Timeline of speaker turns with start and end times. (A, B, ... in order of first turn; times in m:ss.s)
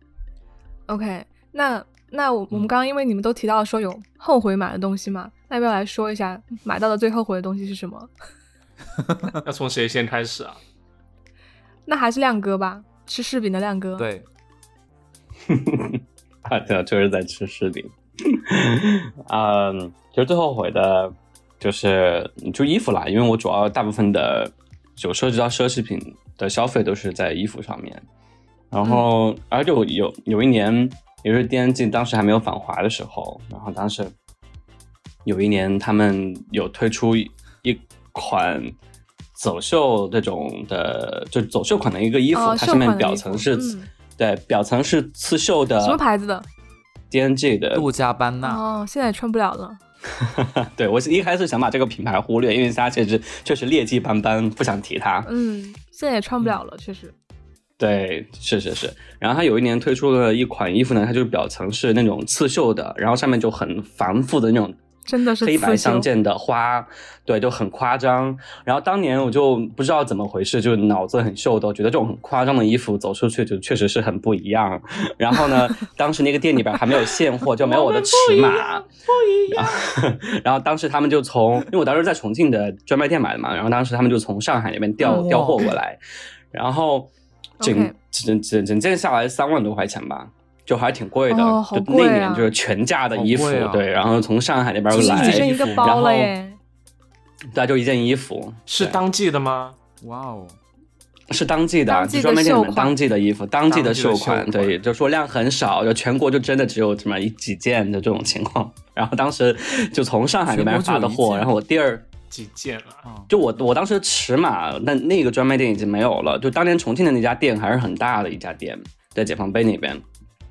0:00.9-0:08.1 A
0:09.4-0:10.6 B
0:11.9-0:14.1 A
0:14.0-0:14.3 C
0:15.5-0:28.0 D
0:28.7-0:34.1 D
0:35.2-0:38.7 D
0:39.4-0:46.0 D
0:42.3-0:43.9 A
0:45.8-0:46.4 A
0:47.1-0:47.9 D
0:47.7-0:48.6 C
0:48.4-0:49.8 A
0:50.2-0:55.3 D
0:55.2-0:57.1 A
0:57.8-1:04.8 D
1:05.1-1:06.1 A
1:05.4-1:18.9 D
1:17.6-1:18.5 C
1:18.2-1:18.7 A
1:19.1-1:19.6 C
1:19.5-1:26.0 D
1:25.0-1:25.8 C
1:25.0-1:25.3 A
1:26.5-1:27.1 D
1:27.6-1:27.9 A
1:27.6-1:36.3 D
1:31.3-1:32.5 A
1:33.1-1:33.9 C
1:34.9-1:35.9 C
1:34.9-1:36.6 A
1:37.5-1:39.0 D
1:38.7-1:39.8 B
1:40.0-1:40.6 C
1:41.3-1:52.1 D
1:41.9-1:42.9 A
1:43.7-1:44.8 B
1:50.4-1:51.5 C
1:52.3-1:53.0 B
1:53.3-2:00.0 D